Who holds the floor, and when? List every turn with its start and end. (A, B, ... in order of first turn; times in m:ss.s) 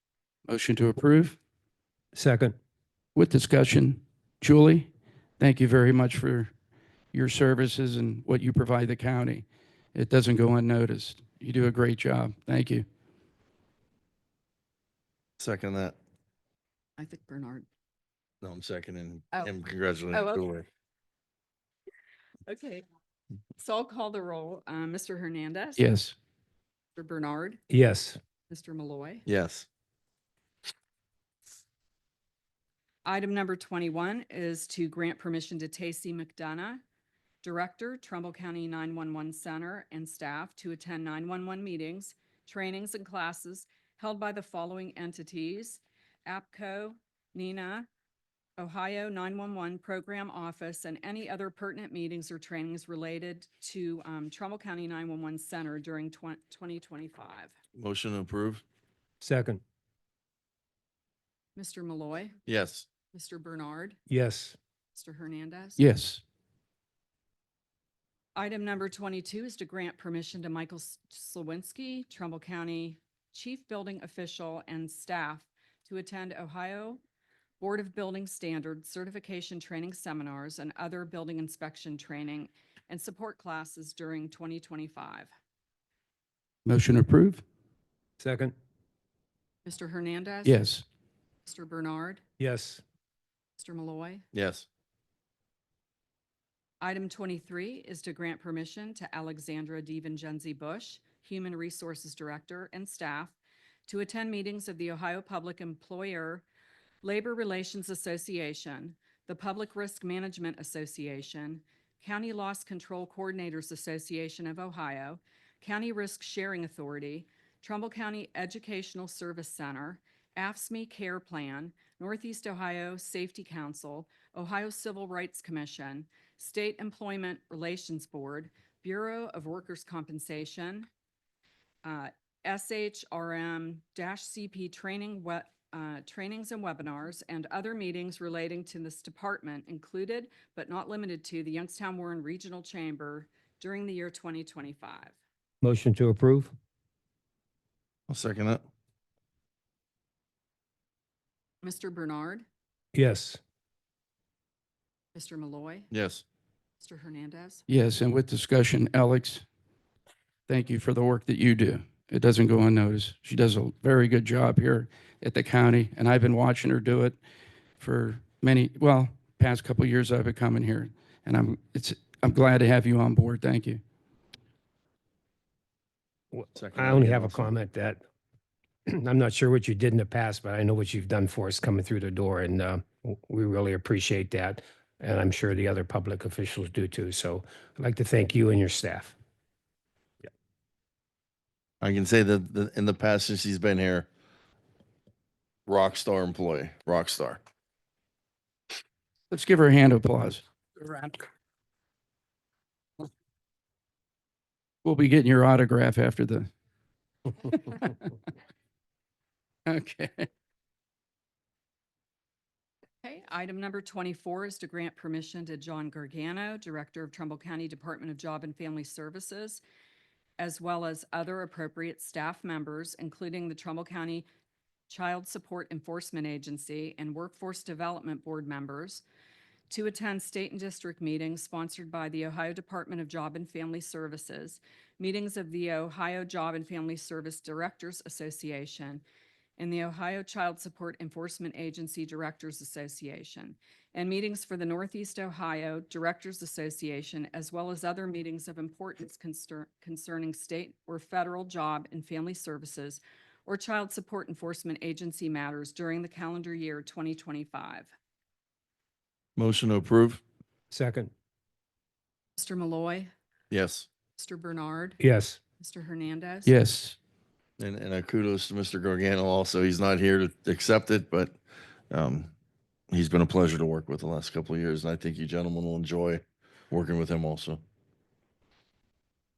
0:00.5-0:01.4 A
0:02.1-0:02.5 B
0:03.1-0:06.5 A
0:07.1-0:12.8 A
0:15.4-0:16.0 C
0:17.0-0:17.7 D
0:18.4-0:20.7 C
0:20.1-0:20.4 D
0:22.5-0:22.8 D
0:23.6-0:25.8 D
0:25.8-0:26.1 A
0:27.0-0:27.6 D
0:27.7-0:28.2 B
0:28.5-0:29.2 D
0:29.3-0:29.7 C
0:33.0-0:36.8 D
0:37.4-0:47.9 D
0:48.6-0:57.5 D
0:57.8-0:58.6 C
0:59.2-0:59.6 B
1:01.6-1:02.4 D
1:02.5-1:02.9 C
1:03.1-1:04.0 D
1:04.1-1:04.6 B
1:04.9-1:05.8 D
1:05.8-1:06.2 A
1:08.3-1:17.0 D
1:17.6-1:25.3 D
1:26.6-1:27.4 A
1:28.2-1:28.5 B
1:29.6-1:30.7 D
1:30.4-1:30.8 A
1:31.4-1:32.2 D
1:32.4-1:32.8 B
1:33.6-1:34.2 D
1:34.3-1:34.6 C
1:36.8-1:43.4 D
1:43.9-1:46.4 D
1:47.0-2:10.9 D
2:11.8-2:25.1 D
2:25.6-2:26.5 B
2:28.1-2:28.6 C
2:31.6-2:32.4 D
2:32.9-2:33.4 B
2:35.1-2:35.9 D
2:35.9-2:36.2 C
2:36.8-2:37.6 D
2:37.7-2:39.4 A
2:40.5-2:47.2 A
2:47.8-2:53.8 A
2:56.3-2:58.0 B
2:56.5-2:57.5 C
2:58.9-3:09.1 B
3:11.8-3:14.1 C
3:15.7-3:17.4 C
3:19.3-3:21.2 A
3:24.8-3:26.5 A
3:27.4-3:28.0 A
3:29.6-3:30.3 A
3:33.0-3:39.6 D
3:40.4-3:44.2 D
3:44.9-3:49.0 D
3:49.7-3:59.0 D
3:59.6-4:17.9 D
4:19.4-4:20.2 C
4:20.7-4:21.1 B
4:22.4-4:23.1 D
4:23.5-4:23.9 C
4:24.2-4:25.0 D
4:25.0-4:25.4 B
4:25.6-4:26.5 D
4:26.4-4:27.0 A
4:27.6-4:31.4 C
4:31.9-4:32.3 C
4:32.9-4:37.6 C